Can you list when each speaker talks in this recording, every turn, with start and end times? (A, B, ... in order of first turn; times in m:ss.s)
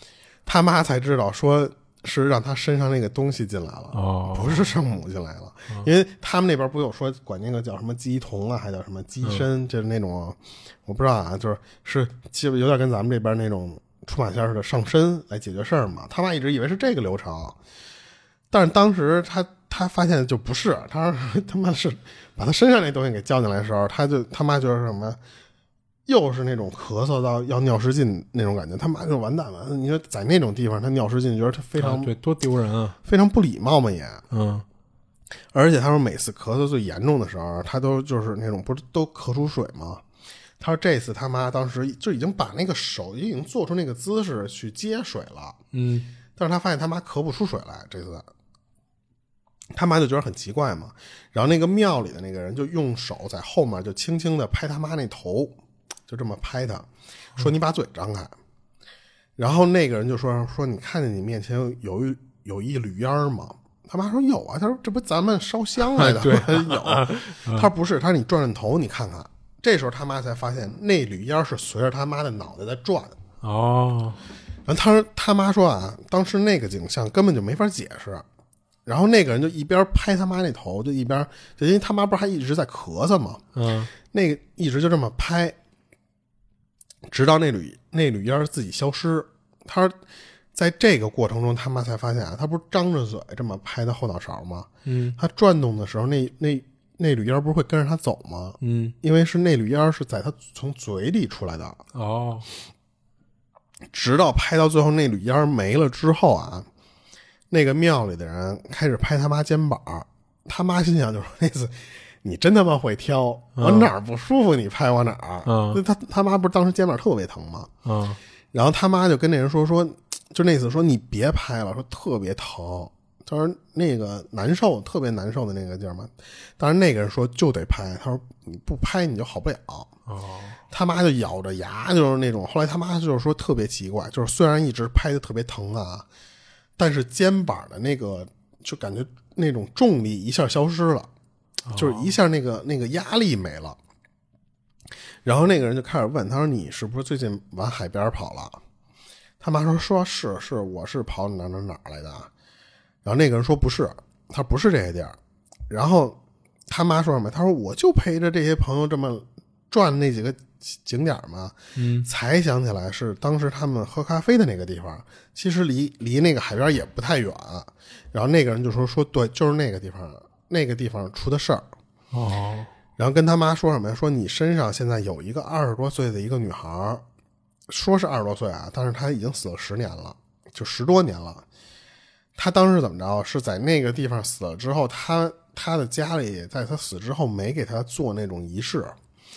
0:00.4-0:17.6 A
0:03.9-0:04.7 B
0:18.5-0:25.2 A
0:26.1-0:32.1 A
0:31.8-0:33.0 B
0:33.0-0:34.2 A
0:34.3-0:34.6 B
0:35.5-0:40.0 A
0:40.6-0:45.6 A
0:45.7-0:46.1 B
0:46.4-0:48.3 A
0:49.7-0:55.5 A
0:56.1-0:58.3 A
0:59.4-1:13.2 A
1:05.8-1:07.7 B
1:13.4-1:14.2 B
1:14.6-1:18.2 A
1:18.8-1:23.4 A
1:23.5-1:23.9 B
1:24.1-1:25.5 A
1:27.1-1:29.9 A
1:30.5-1:41.8 A
1:34.8-1:35.2 B
1:38.6-1:38.9 B
1:41.9-1:42.5 B
1:43.9-1:46.7 A
1:47.5-1:57.7 A
1:53.6-1:53.9 B
1:55.4-1:55.8 B
1:57.8-1:58.2 B
1:58.5-2:09.9 A
2:10.1-2:10.6 B
2:10.7-2:16.0 A
2:16.8-2:21.1 A
2:21.6-2:22.1 B
2:21.7-2:23.8 A
2:25.2-2:28.6 A
2:29.4-2:32.3 A
2:33.0-2:35.2 A
2:35.7-2:36.2 A
2:36.7-2:51.6 A
2:41.8-2:42.1 B
2:52.1-2:52.7 B
2:53.0-2:57.0 A
2:57.7-3:01.4 A
3:02.4-3:09.0 A